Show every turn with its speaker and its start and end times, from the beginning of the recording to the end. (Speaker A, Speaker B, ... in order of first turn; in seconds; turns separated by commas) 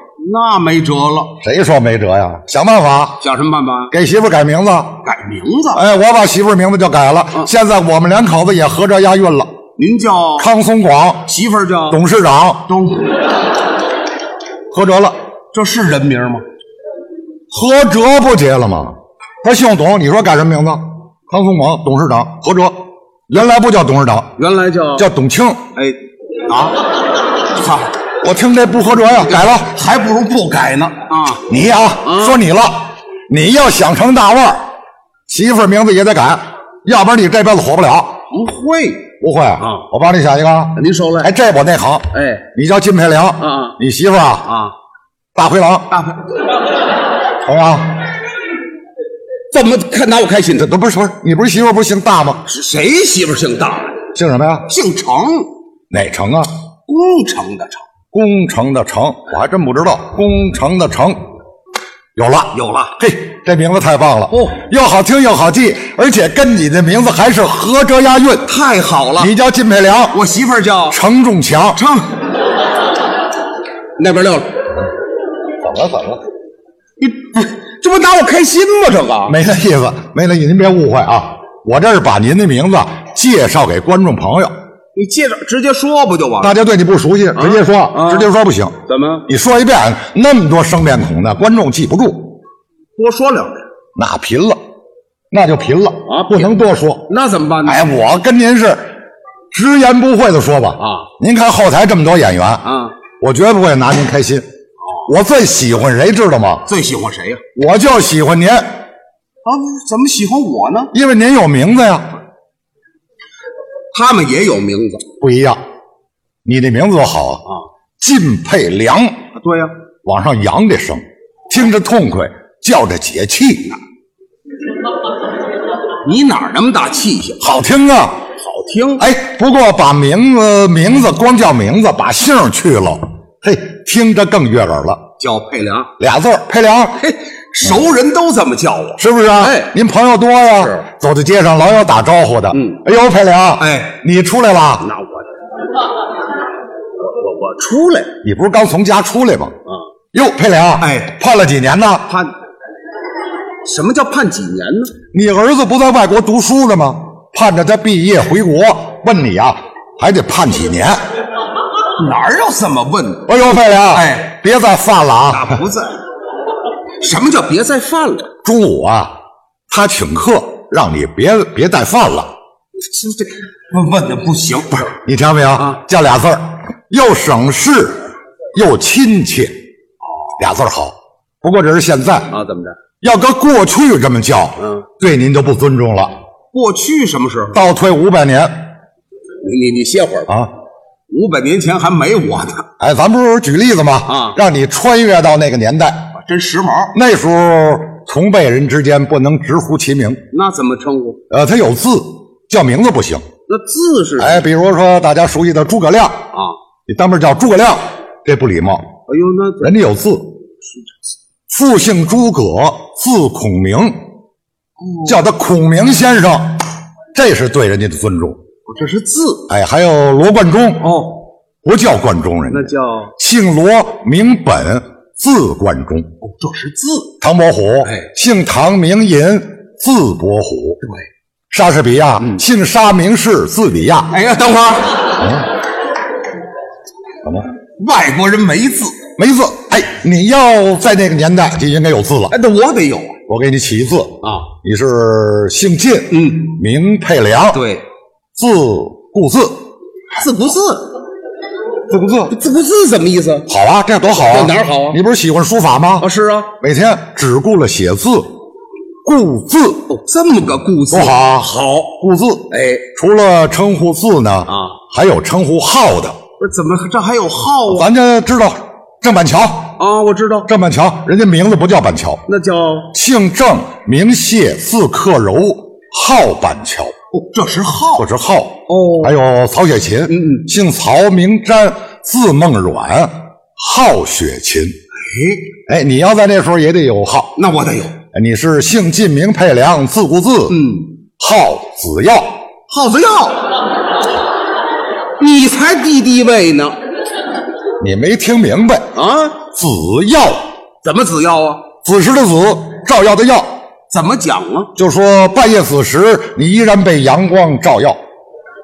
Speaker A: 0.2-1.4, Speaker B: 1.4-3.2, Speaker A: 3.2-3.9, Speaker B: 3.9-5.0, Speaker A: 5.0-5.8, Speaker B: 5.7-9.5, Speaker A: 9.8-10.5, Speaker B: 10.4-11.3, Speaker A: 11.3-12.0, Speaker B: 11.9-12.7, Speaker A: 12.7-13.2, Speaker B: 14.7-15.2, Speaker A: 15.5-16.4, Speaker B: 17.5-24.4, Speaker A: 24.4-25.1, Speaker B: 25.0-25.7, Speaker A: 25.8-26.9, Speaker A: 27.5-27.9, Speaker B: 28.2-29.7, Speaker A: 29.3-31.4, Speaker B: 31.5-34.7, Speaker A: 32.0-32.4, Speaker B: 35.3-38.2, Speaker A: 38.3-39.9, Speaker B: 39.2-44.5, Speaker A: 40.8-41.3, Speaker A: 42.1-42.5, Speaker A: 43.4-43.8, Speaker A: 44.5-44.7, Speaker B: 45.4-45.9, Speaker A: 45.9-46.3, Speaker B: 47.4-48.1, Speaker A: 49.5-50.7, Speaker B: 50.6-52.5, Speaker A: 52.5-54.0, Speaker B: 54.1-54.7, Speaker A: 54.7-55.5, Speaker B: 55.9-56.5, Speaker A: 56.9-57.8, Speaker B: 58.1-61.3, Speaker B: 62.1-68.5, Speaker A: 62.5-62.9, Speaker A: 64.3-64.6, Speaker A: 68.5-69.3, Speaker B: 69.2-70.2, Speaker A: 70.1-71.0, Speaker B: 70.9-71.8, Speaker A: 71.8-72.1, Speaker A: 74.0-74.6, Speaker B: 75.6-76.2, Speaker A: 77.0-79.4, Speaker B: 79.3-84.5, Speaker A: 85.0-86.5, Speaker B: 86.4-92.4, Speaker A: 87.4-88.3, Speaker A: 88.9-89.3, Speaker A: 93.0-93.7, Speaker B: 94.0-94.6, Speaker B: 95.3-97.1, Speaker A: 96.1-97.8, Speaker B: 97.6-98.9, Speaker B: 99.5-102.7, Speaker A: 100.8-101.1, Speaker A: 102.6-103.0, Speaker B: 103.2-104.5, Speaker B: 105.1-106.7, Speaker A: 106.7-107.4, Speaker B: 107.6-108.8, Speaker A: 109.5-110.9, Speaker B: 110.9-112.2, Speaker A: 113.9-115.1, Speaker B: 115.2-115.6, Speaker B: 116.5-117.5, Speaker B: 118.0-119.2, Speaker A: 119.4-119.7, Speaker B: 120.0-123.8, Speaker A: 126.0-127.5, Speaker B: 127.4-128.2, Speaker A: 128.4-129.1, Speaker B: 129.0-135.1, Speaker A: 135.2-135.9, Speaker B: 136.0-137.0, Speaker A: 137.0-139.7, Speaker B: 139.0-144.9, Speaker A: 140.6-140.9, Speaker A: 142.5-142.8, Speaker A: 143.6-144.0, Speaker A: 144.8-145.3, Speaker A: 147.0-148.2, Speaker B: 148.2-149.6, Speaker B: 150.1-152.1, Speaker A: 150.8-151.1, Speaker A: 152.1-152.3, Speaker A: 153.6-154.9, Speaker B: 155.1-161.0, Speaker A: 162.0-163.3, Speaker B: 163.3-165.6, Speaker A: 163.9-164.3, Speaker A: 165.3-166.0, Speaker A: 167.0-168.3, Speaker B: 168.4-169.2, Speaker B: 169.7-172.3, Speaker A: 172.9-175.0, Speaker B: 175.0-179.6, Speaker A: 180.1-180.4, Speaker B: 180.4-182.4, Speaker A: 182.3-182.8, Speaker B: 183.0-186.2, Speaker A: 186.5-187.6, Speaker B: 187.5-188.7, Speaker A: 189.4-190.4, Speaker A: 191.1-192.7, Speaker B: 192.8-196.1, Speaker A: 194.1-194.4, Speaker A: 196.2-196.9, Speaker B: 196.9-200.2, Speaker A: 200.3-201.2, Speaker B: 201.3-203.3, Speaker A: 203.5-204.5, Speaker B: 204.2-206.3, Speaker B: 206.9-208.9, Speaker A: 209.1-209.7, Speaker B: 209.6-210.4, Speaker B: 211.5-214.1, Speaker A: 214.8-215.2, Speaker B: 215.1-216.6, Speaker B: 217.1-218.4, Speaker A: 218.7-219.5, Speaker B: 219.5-220.9, Speaker A: 220.8-221.3, Speaker B: 221.6-226.1, Speaker A: 222.5-223.1, Speaker A: 226.2-227.1, Speaker B: 227.2-230.8, Speaker B: 231.5-234.1, Speaker A: 234.1-235.3, Speaker B: 235.2-235.5, Speaker A: 237.8-239.0, Speaker B: 239.2-242.3, Speaker A: 242.3-243.2, Speaker B: 243.3-247.7, Speaker A: 244.2-244.5, Speaker A: 246.1-246.6, Speaker A: 247.5-247.8, Speaker B: 248.4-249.6, Speaker A: 250.1-251.0, Speaker B: 251.9-252.3, Speaker A: 252.3-253.5, Speaker B: 253.5-256.1, Speaker A: 254.1-255.0, Speaker A: 256.0-256.5, Speaker B: 256.6-258.3, Speaker B: 259.0-259.9, Speaker A: 259.9-261.9, Speaker B: 260.9-266.2, Speaker A: 262.5-262.9, Speaker A: 264.5-264.8, Speaker A: 266.4-267.9, Speaker B: 267.7-269.8, Speaker A: 269.8-270.5, Speaker B: 270.5-272.2, Speaker A: 272.3-272.9, Speaker B: 272.9-276.9, Speaker A: 277.1-278.1, Speaker B: 278.0-284.8, Speaker A: 278.7-279.1, Speaker A: 280.1-280.5, Speaker A: 285.0-285.4, Speaker B: 285.7-287.4, Speaker A: 287.4-288.0, Speaker B: 288.1-290.6, Speaker A: 290.5-290.9, Speaker B: 291.2-292.4, Speaker A: 292.7-293.6, Speaker A: 295.2-296.8, Speaker B: 297.8-298.9, Speaker A: 298.9-299.4, Speaker B: 299.5-300.5, Speaker A: 300.8-301.7, Speaker B: 301.8-303.6, Speaker A: 303.9-304.7, Speaker B: 304.8-308.0